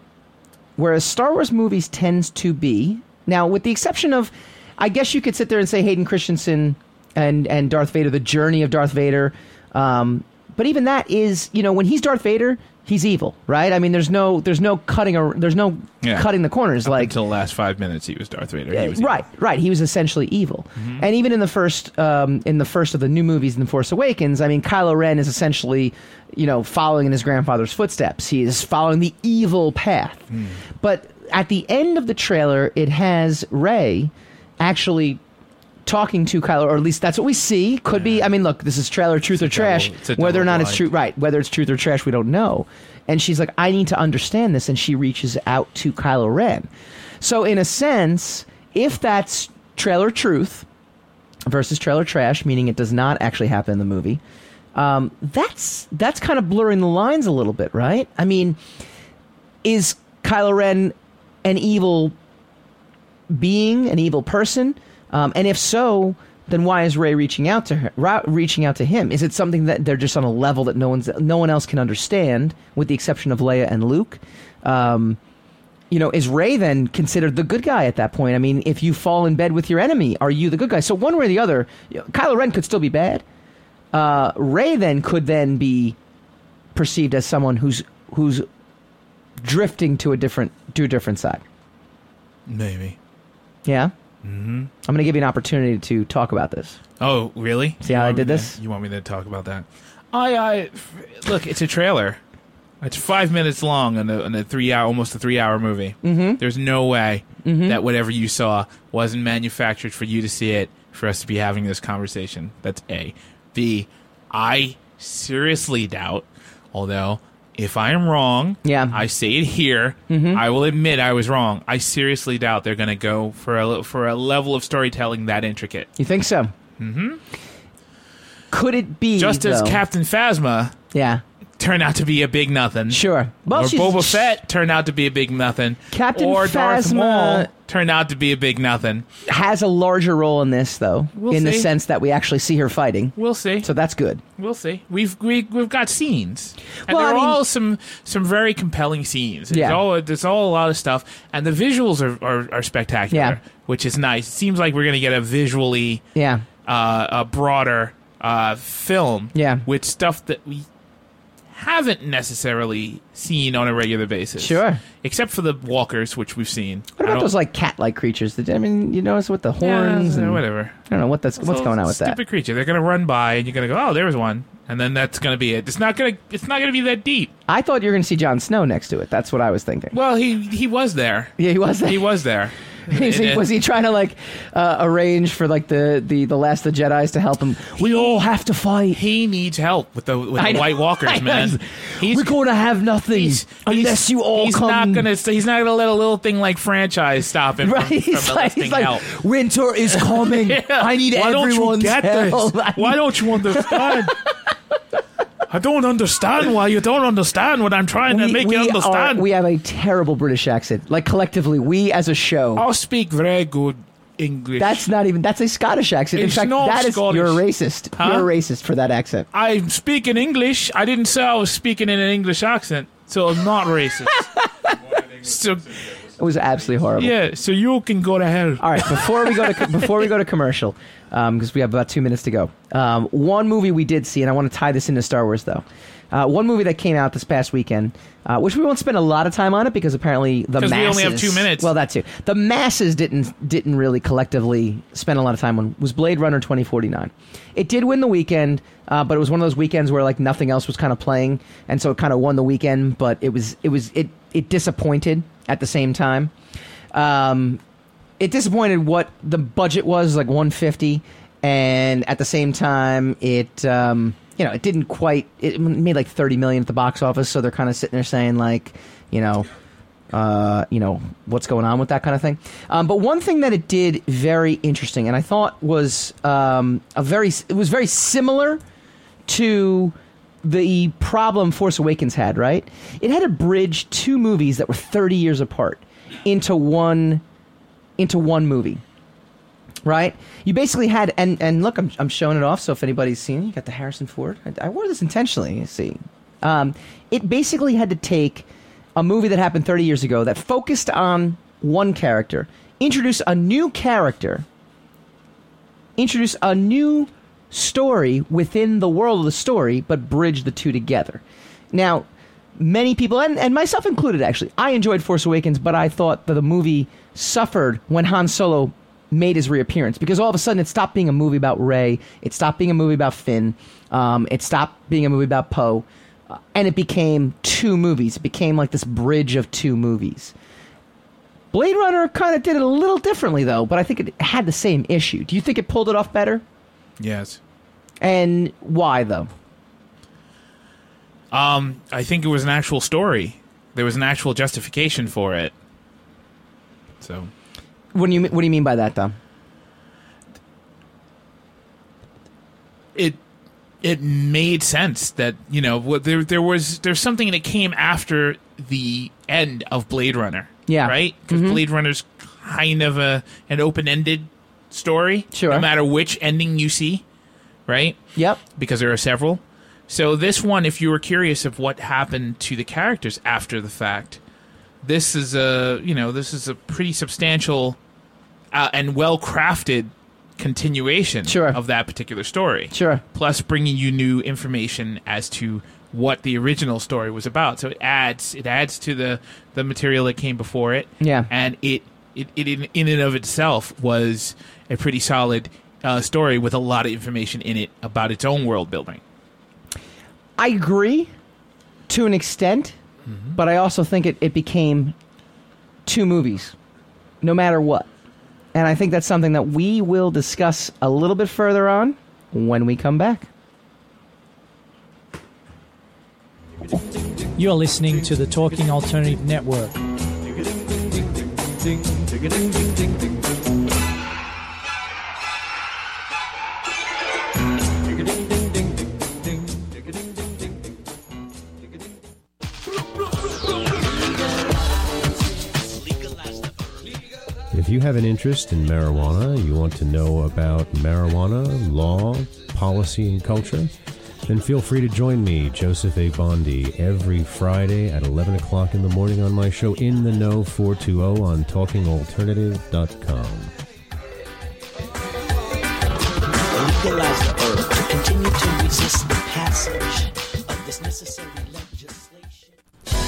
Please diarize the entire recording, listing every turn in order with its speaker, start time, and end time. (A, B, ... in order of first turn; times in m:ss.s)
0:00.8-0:17.2 A
0:16.0-0:16.3 B
0:16.8-0:19.2 B
0:18.7-0:30.3 A
0:20.8-0:21.1 B
0:30.3-0:30.6 B
0:30.8-0:35.2 A
0:35.9-0:46.7 A
0:37.9-0:38.3 B
0:39.4-0:40.9 B
0:47.2-0:50.7 A
0:51.5-0:54.2 A
0:54.8-0:58.6 A
0:59.6-1:02.2 A
1:03.3-1:15.2 A
1:15.9-1:23.2 A
1:23.9-1:26.0 A
1:26.8-1:28.5 A
1:29.4-1:31.4 A
1:32.5-1:33.0 B
1:33.6-1:33.9 A
1:34.2-1:34.7 B
1:34.8-1:36.8 A
1:37.0-1:42.2 B
1:37.8-1:38.6 A
1:42.8-2:05.9 B
1:46.0-1:46.4 A
1:47.4-1:47.8 A
1:58.6-1:59.0 A
2:00.1-2:00.4 A
2:06.0-2:06.5 A
2:06.8-2:07.2 B
2:08.5-2:09.8 A
2:09.2-2:10.8 B
2:10.9-2:11.2 A
2:11.6-2:19.1 B
2:12.9-2:14.4 A
2:15.9-2:17.5 A
2:19.2-2:24.2 A
2:21.2-2:21.7 B
2:23.2-2:23.7 B
2:24.4-2:36.0 B
2:26.9-2:27.4 A
2:29.5-2:29.8 A
2:33.1-2:33.4 A
2:36.2-2:36.4 A
2:36.7-2:40.7 B
2:39.3-2:39.6 A
2:41.5-2:47.3 B
2:44.4-2:44.8 A
2:47.0-2:52.2 A
2:49.6-2:50.8 B
2:51.4-2:57.3 B
2:57.5-2:59.9 A
2:59.9-3:03.4 B
3:01.4-3:02.2 A
3:02.9-3:09.0 A
3:07.8-3:08.3 B
3:08.9-3:12.4 B
3:10.4-3:15.1 A
3:13.1-3:19.1 B
3:17.6-3:24.1 A
3:19.9-3:24.2 B
3:25.5-3:29.2 B
3:28.1-3:32.6 A
3:32.6-3:34.9 B
3:34.6-3:39.3 A
3:36.2-3:38.3 B
3:39.3-3:44.3 B
3:45.0-3:46.0 B
3:46.0-3:47.2 A
3:47.0-3:49.8 B
3:48.6-4:16.3 A
4:00.6-4:01.7 B
4:16.9-4:17.6 A
4:18.2-4:29.5 A
4:30.1-4:38.6 A
4:39.3-4:47.2 A
4:48.0-4:48.8 A
4:49.8-5:04.5 A
5:06.0-5:30.3 A
5:31.5-5:36.4 A
5:37.0-5:37.4 B
5:38.0-5:39.3 A
5:41.3-5:45.5 B
5:47.0-5:47.3 B
5:47.9-5:49.2 A
5:53.8-6:07.0 B
6:00.7-6:01.6 A
6:05.3-6:05.7 A
6:07.7-6:08.0 B
6:08.6-6:14.2 B
6:14.8-6:17.8 B
6:18.5-6:39.0 B
6:21.3-6:21.6 A
6:22.7-6:23.0 A
6:31.0-6:31.3 A
6:40.4-6:41.1 A
6:41.9-6:42.8 A
6:43.1-6:43.4 B
6:43.4-6:45.0 A
6:45.9-6:46.6 A
6:47.2-6:47.9 A
6:48.5-6:53.3 A
6:57.4-6:59.8 C
7:17.5-7:23.7 D
7:24.3-7:33.5 D
7:36.4-7:42.5 E